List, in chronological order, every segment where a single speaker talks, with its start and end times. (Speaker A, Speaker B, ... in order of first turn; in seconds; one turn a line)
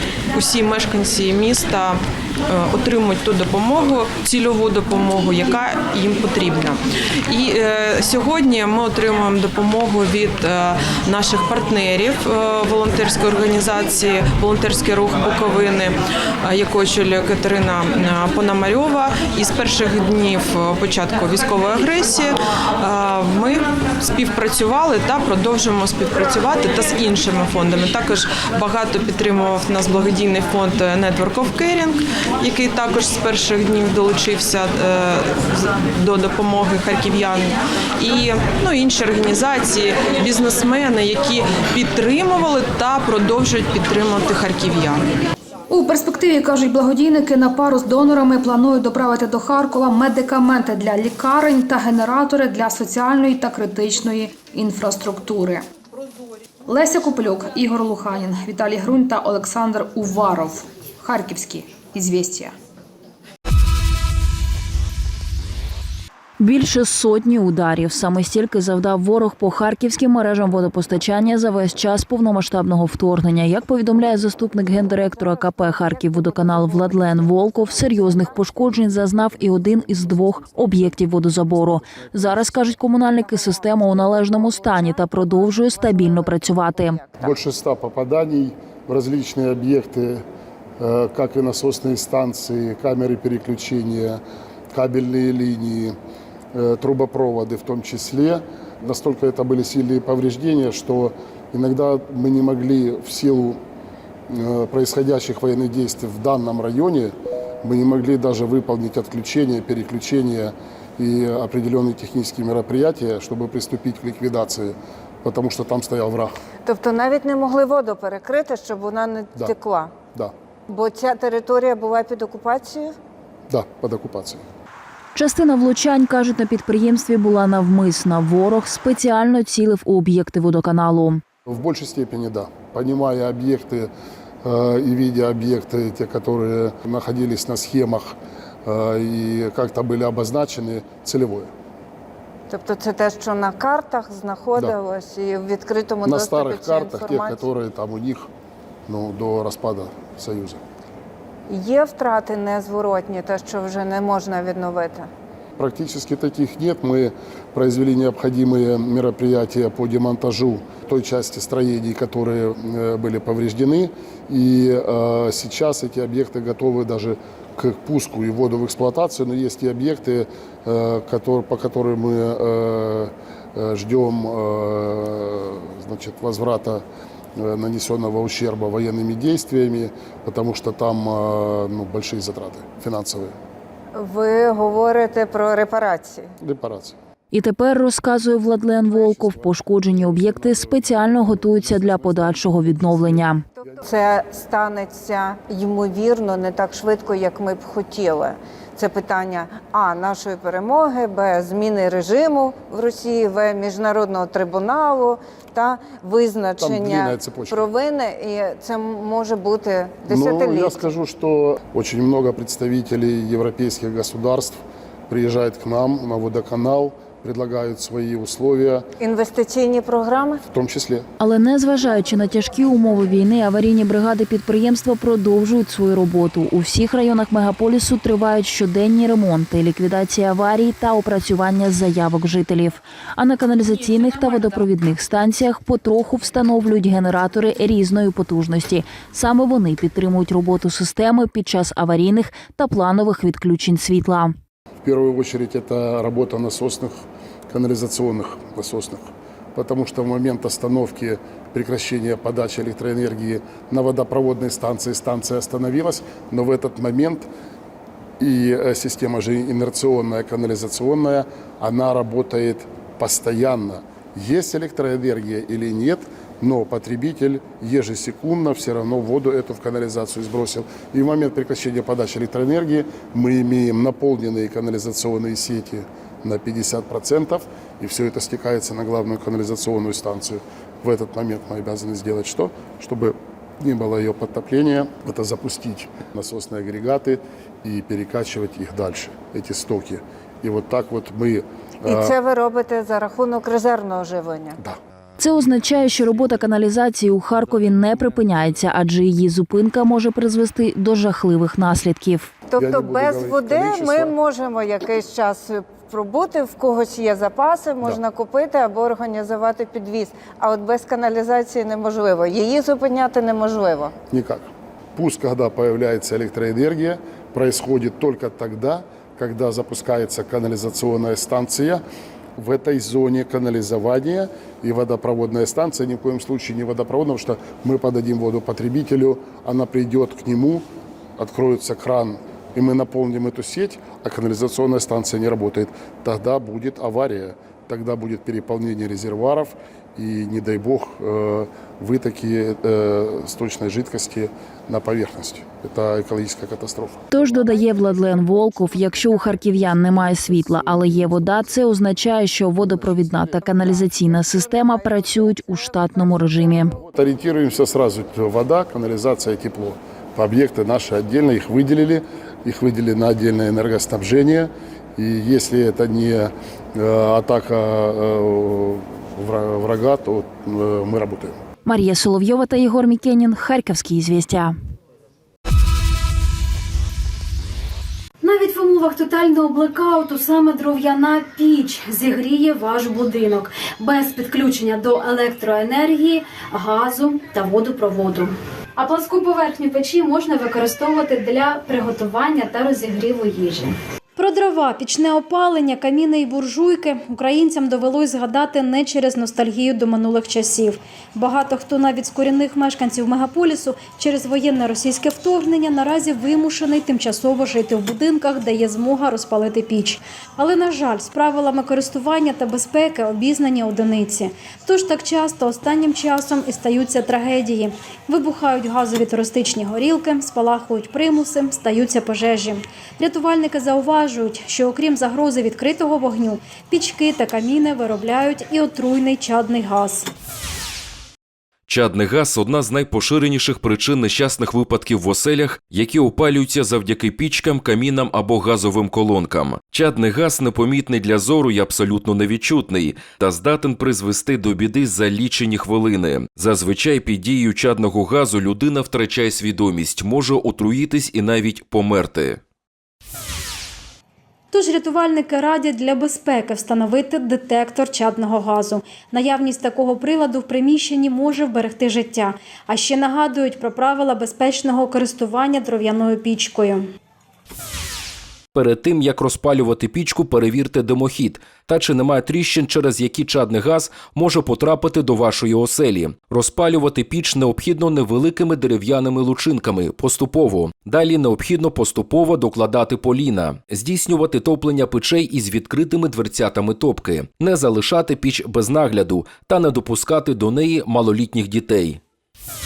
Speaker A: 0.3-45.1
Speaker B: 45.7-55.6
Speaker B: 56.7-62.5
Speaker C: 66.4-87.1
Speaker D: 84.9-87.3
Speaker E: 87.2-90.2
Speaker E: 90.8-94.2
Speaker E: 94.7-96.0
Speaker E: 96.5-103.6
Speaker E: 104.3-116.3
Speaker D: 116.7-120.0
Speaker E: 120.1-120.3
Speaker D: 120.7-122.9
Speaker E: 123.5-124.4
Speaker C: 125.2-131.2
Speaker E: 131.5-133.9
Speaker E: 134.4-141.5
Speaker D: 142.5-147.5
Speaker E: 146.0-148.3
Speaker E: 148.9-150.6
Speaker D: 151.5-155.1
Speaker E: 155.6-176.8
Speaker E: 177.4-183.3
Speaker D: 183.9-186.3
Speaker E: 186.4-187.0
Speaker C: 187.3-193.4
Speaker E: 188.8-193.8
Speaker D: 193.8-210.9
Speaker E: 206.6-207.7
Speaker E: 210.1-218.8
Speaker D: 219.0-220.4
Speaker E: 220.5-221.1
Speaker C: 221.2-244.3
Speaker E: 244.8-247.0
Speaker E: 247.5-257.3
Speaker E: 258.2-292.1
Speaker D: 291.8-294.6
Speaker C: 295.2-302.3
Speaker D: 302.5-313.9
Speaker E: 302.6-304.1
Speaker E: 314.1-321.8
Speaker E: 322.4-330.6
Speaker E: 331.2-347.4
Speaker C: 347.1-356.8
Speaker E: 349.9-351.2
Speaker E: 352.6-353.2
Speaker D: 353.6-355.1
Speaker E: 356.9-371.4
Speaker C: 371.6-374.6
Speaker F: 378.2-430.1
Speaker G: 431.7-452.4
Speaker F: 454.5-466.9
Speaker G: 468.5-492.0